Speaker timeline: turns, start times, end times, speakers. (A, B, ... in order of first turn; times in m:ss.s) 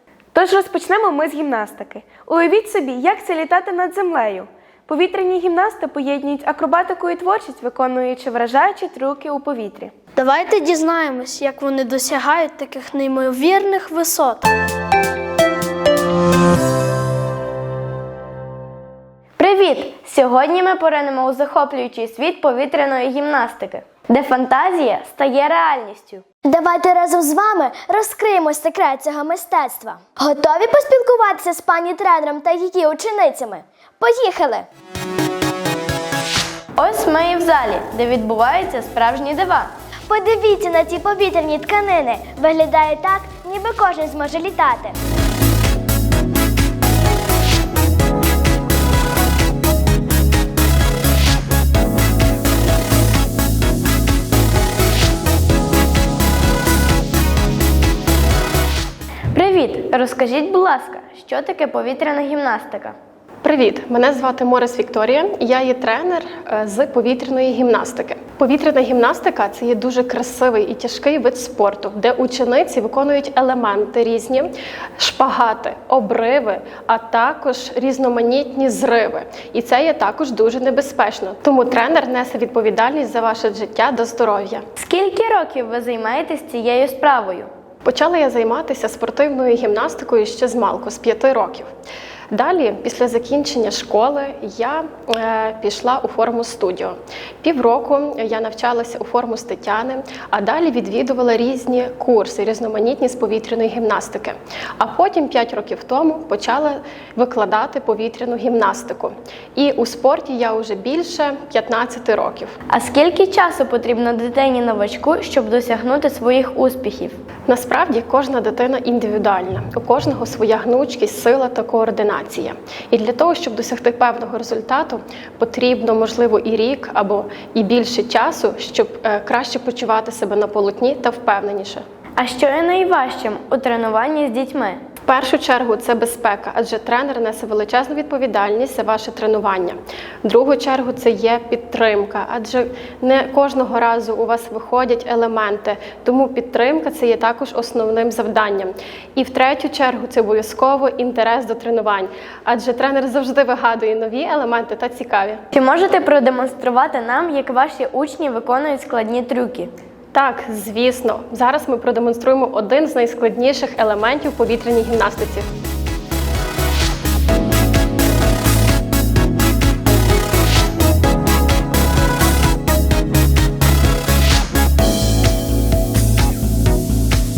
0:00.4-0:09.9 A
0:10.2-0:14.5 B
0:19.4-0:26.2 C
0:26.4-0:34.7 D
0:36.8-0:39.7 C
0:40.1-0:44.9 D
0:59.3-1:03.0 C
1:03.4-1:24.6 E
1:24.8-1:27.5 C
1:27.8-1:31.7 E
1:32.3-1:52.5 E
1:52.7-1:57.2 C
1:57.5-2:11.8 E
2:12.2-2:14.8 C
2:15.0-2:35.4 E
2:35.5-2:39.7 C
2:40.1-2:45.5 E